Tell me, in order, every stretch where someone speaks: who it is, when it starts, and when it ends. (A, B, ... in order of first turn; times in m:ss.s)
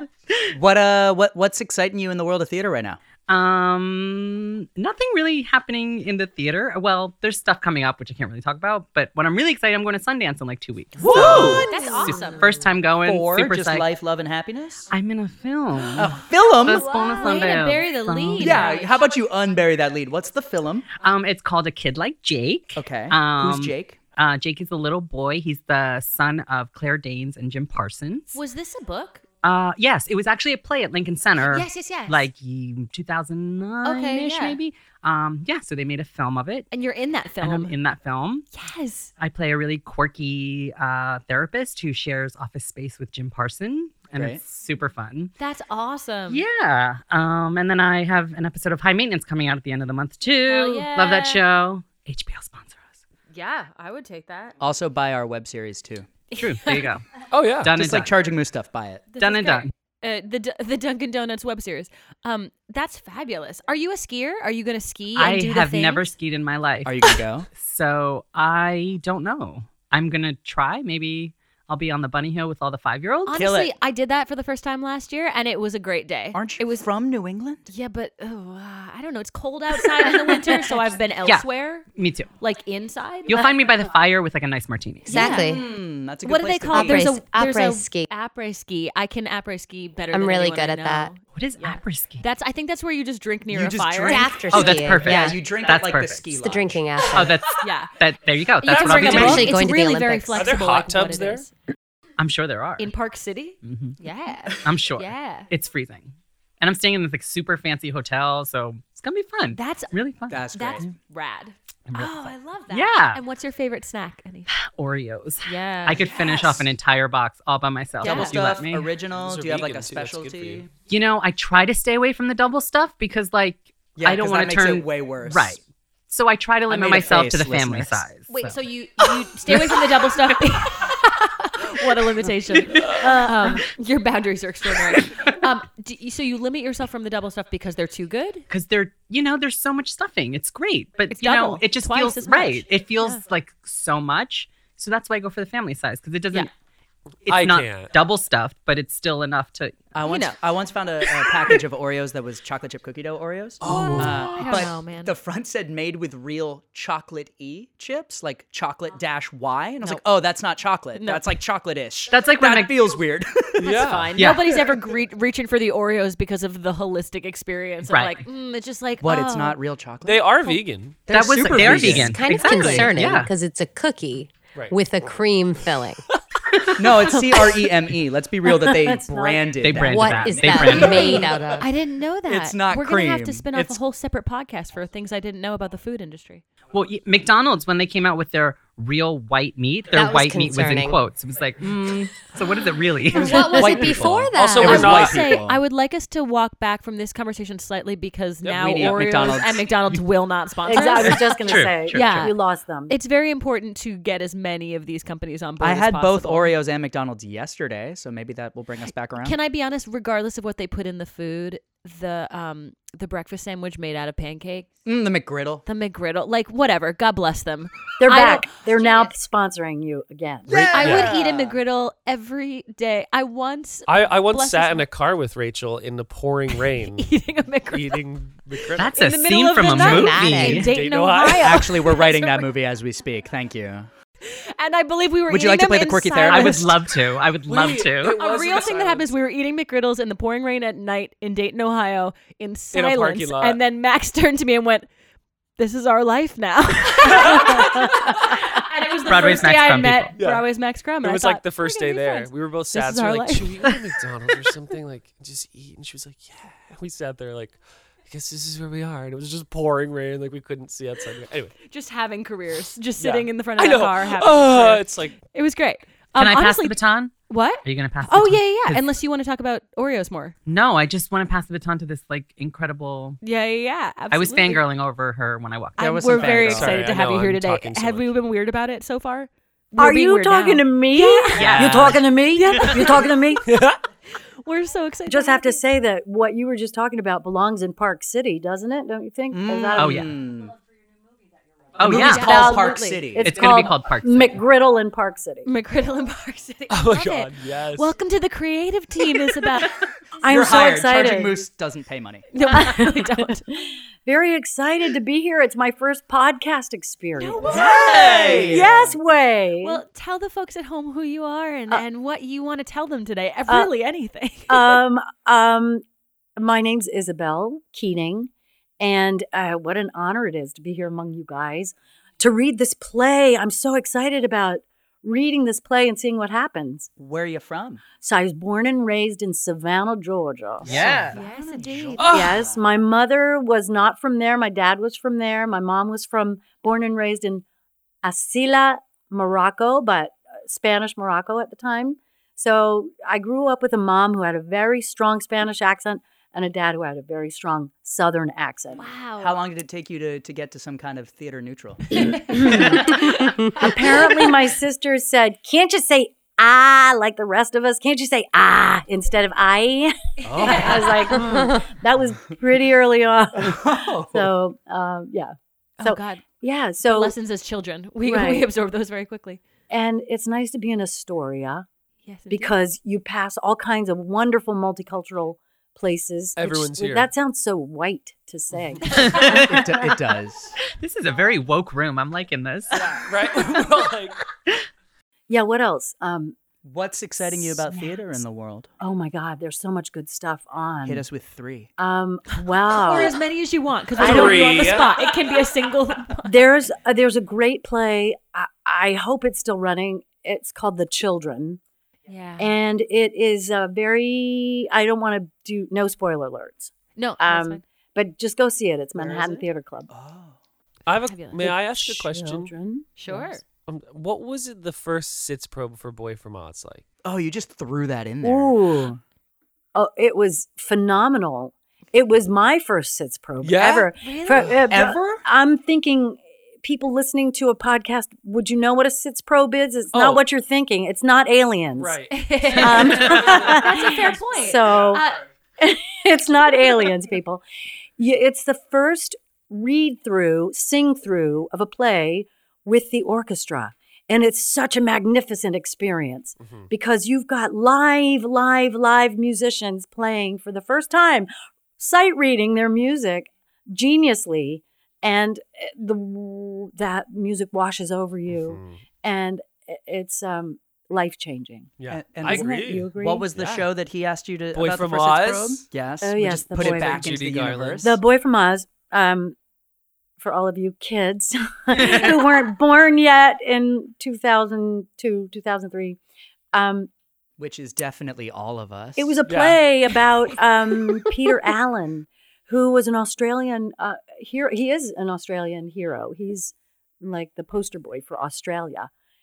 0:00.5-0:03.0 A
0:03.3-0:13.9 B
0:11.0-0:12.1 A
0:11.1-0:12.5 C
0:13.0-0:14.9 A
0:14.9-0:18.8 B
0:16.0-0:16.9 A
0:16.7-0:19.0 C
0:18.4-0:20.9 A
0:20.9-0:28.4 B
0:22.8-0:24.0 A
0:28.3-0:29.2 C
0:29.4-0:36.7 B
0:31.4-0:32.3 C
0:33.8-0:34.6 C
0:36.7-0:37.8 C
0:37.4-0:38.5 B
0:38.5-0:39.1 C
0:39.2-0:45.3 B
0:44.1-0:44.4 A
0:45.4-0:46.4 C
0:46.3-0:53.0 B
0:50.4-0:51.4 C
0:53.3-0:54.6 C
0:54.6-0:56.1 A
0:56.3-0:56.9 C
0:56.4-0:57.0 B
0:57.3-0:57.7 D
0:57.6-0:58.1 B
0:57.6-0:59.1 A
0:59.1-1:06.1 C
0:59.2-0:59.7 B
1:05.2-1:13.4 B
1:06.8-1:07.5 A
1:13.2-1:16.9 C
1:13.3-1:13.7 A
1:16.3-1:17.7 A
1:17.6-1:21.8 C
1:21.2-1:22.3 B
1:22.4-1:23.5 C
1:23.3-1:25.4 B
1:25.1-1:25.6 C
1:25.1-1:25.7 E
1:25.2-1:27.1 A
1:26.2-1:34.3 C
1:26.7-1:28.1 E
1:30.1-1:31.1 E
1:31.3-1:32.2 B
1:33.5-1:37.3 A
1:34.1-1:35.4 E
1:34.5-1:36.3 B
1:36.4-1:37.3 E
1:37.1-1:39.5 B
1:37.6-1:37.9 C
1:38.6-1:41.5 C
1:38.7-1:39.4 D
1:39.0-1:40.5 E
1:40.3-1:41.5 D
1:42.2-1:42.9 B
1:42.8-1:45.5 C
1:43.6-1:44.0 B
1:44.6-1:50.9 B
1:49.5-1:49.9 C
1:50.3-1:50.9 A
1:50.5-1:54.5 C
1:51.9-1:53.2 B
1:54.6-1:58.9 B
1:55.4-1:56.1 C
1:55.9-1:56.7 A
1:58.0-1:58.4 C
1:58.0-2:00.7 A
1:59.1-2:00.7 D
2:00.9-2:08.6 B
2:04.0-2:05.6 A
2:06.7-2:08.1 A
2:08.3-2:18.4 C
2:09.5-2:09.8 B
2:12.7-2:13.3 D
2:18.5-2:26.5 B
2:21.1-2:23.2 C
2:27.2-2:27.9 D
2:27.2-2:29.8 B
2:29.9-2:44.0 A
2:30.1-2:30.4 C
2:31.1-2:31.6 C
2:33.6-2:34.5 D
2:33.7-2:35.1 C
2:40.9-2:41.4 C
2:42.1-2:43.0 B
2:43.6-2:44.4 D
2:43.6-2:49.6 C
2:44.2-2:44.5 B
2:47.9-2:48.2 B
2:49.0-2:50.4 A
2:50.0-2:51.1 D
2:51.1-2:52.9 A
2:51.1-2:53.3 B
2:51.6-2:56.0 E
2:56.8-3:01.6 A
2:57.2-2:57.7 F
2:58.4-2:59.9 F
2:59.6-3:01.2 B
2:59.8-3:01.7 E
3:00.7-3:06.4 C
3:02.2-3:03.8 A
3:06.7-3:13.8 B
3:09.9-3:11.0 E
3:11.6-3:12.2 A
3:13.1-3:15.0 E
3:13.1-3:15.6 A
3:13.2-3:13.7 C
3:13.9-3:15.4 D
3:14.6-3:21.4 C
3:18.4-3:18.9 D
3:18.5-3:19.7 A
3:20.7-3:22.9 F
3:21.0-3:22.3 B
3:21.9-3:22.4 C
3:22.9-3:26.5 C
3:25.6-3:29.4 A
3:29.2-3:34.7 C
3:34.8-3:35.6 A
3:35.6-3:39.1 C
3:38.0-3:40.8 F
3:40.5-3:41.6 A
3:40.6-3:41.1 D
3:40.7-3:44.8 C
3:43.9-3:47.1 D
3:46.5-3:52.5 C
3:47.7-3:48.9 D
3:48.8-3:50.7 B
3:49.7-3:50.7 E
3:50.4-3:51.9 D
3:51.4-3:53.9 A
3:54.2-3:56.7 C
3:55.3-3:56.8 A
3:56.3-3:58.2 B
3:57.4-3:59.1 D
3:58.2-4:04.9 C
4:02.7-4:03.6 D
4:05.6-4:13.7 C
4:07.0-4:07.9 D
4:09.0-4:10.1 B
4:10.2-4:21.6 D
4:21.7-4:30.3 C
4:23.0-4:25.2 D
4:26.2-4:28.8 B
4:30.5-4:33.2 B
4:33.2-4:34.6 C
4:34.1-4:36.3 B
4:35.8-4:36.9 A
4:35.8-4:43.4 C
4:36.2-4:38.1 D
4:39.8-4:43.5 F
4:41.3-4:42.1 B
4:41.4-4:41.9 D
4:43.5-4:43.8 D
4:44.4-4:45.6 C
4:45.1-4:50.1 F
4:49.3-4:50.6 A
4:49.7-4:50.1 B
4:51.8-4:52.6 B
4:51.8-4:53.6 A
4:51.8-4:53.0 C
4:51.8-4:55.5 F
4:53.2-4:54.4 B
4:55.4-4:59.7 C
4:56.7-4:58.0 D
5:00.2-5:01.4 F
5:00.2-5:02.3 A
5:02.3-5:03.4 C
5:02.4-5:09.8 F
5:07.2-5:08.7 C
5:07.4-5:08.9 A
5:09.6-5:14.8 C
5:14.5-5:15.8 F
5:16.4-5:26.9 F
5:27.0-5:27.8 A
5:28.0-5:31.1 F
5:30.6-5:32.6 A
5:30.6-5:31.2 B
5:31.1-5:32.3 C
5:32.0-5:32.4 D
5:32.1-5:37.4 F
5:38.0-5:48.8 F
5:48.8-5:49.4 C
5:49.2-5:53.0 A
5:51.9-5:54.2 C
5:52.3-6:07.1 F
6:00.2-6:01.4 C
6:00.3-6:01.2 A
6:03.4-6:04.3 A
6:05.8-6:06.2 C
6:06.8-6:09.4 C
6:08.0-6:08.5 F
6:09.7-6:11.6 F
6:12.1-6:12.6 C
6:12.3-6:19.4 F
6:16.4-6:17.1 D
6:18.9-6:19.9 B
6:19.1-6:20.6 A
6:20.7-6:22.8 B
6:22.9-6:24.2 D
6:25.3-6:26.4 F
6:26.6-6:28.7 A
6:27.2-6:28.2 F
6:28.8-6:31.0 F
6:30.8-6:31.7 A
6:31.8-6:33.2 F
6:32.7-6:36.5 C
6:34.0-6:34.8 F
6:34.0-6:34.9 D
6:36.2-6:41.6 F
6:42.1-6:42.5 C
6:42.4-6:49.9 F
6:47.0-6:47.6 C
6:49.0-6:49.4 D
6:49.9-6:50.4 A
6:50.8-6:52.5 D
6:51.0-6:51.4 C
6:51.4-6:53.4 F
6:53.0-6:53.4 C
6:53.7-6:56.8 D
6:57.0-6:58.6 A
6:58.2-6:59.0 F
6:59.7-7:12.0 F
7:03.4-7:04.5 D
7:04.0-7:04.5 C
7:04.7-7:05.2 A
7:09.9-7:10.2 D
7:11.8-7:14.0 D
7:12.1-7:15.2 C
7:12.6-7:15.0 F
7:15.6-7:17.4 F
7:18.0-7:43.3 F
7:26.4-7:26.7 D
7:38.3-7:38.8 D
7:41.8-7:43.7 D
7:41.9-7:48.0 A
7:44.5-7:45.7 D
7:46.0-7:47.2 F
7:46.5-7:47.9 D
7:47.8-7:49.4 F
7:50.2-7:56.0 F
7:56.5-7:56.9 F
7:57.4-7:59.2 A
7:59.0-8:08.9 F
7:59.2-7:59.6 D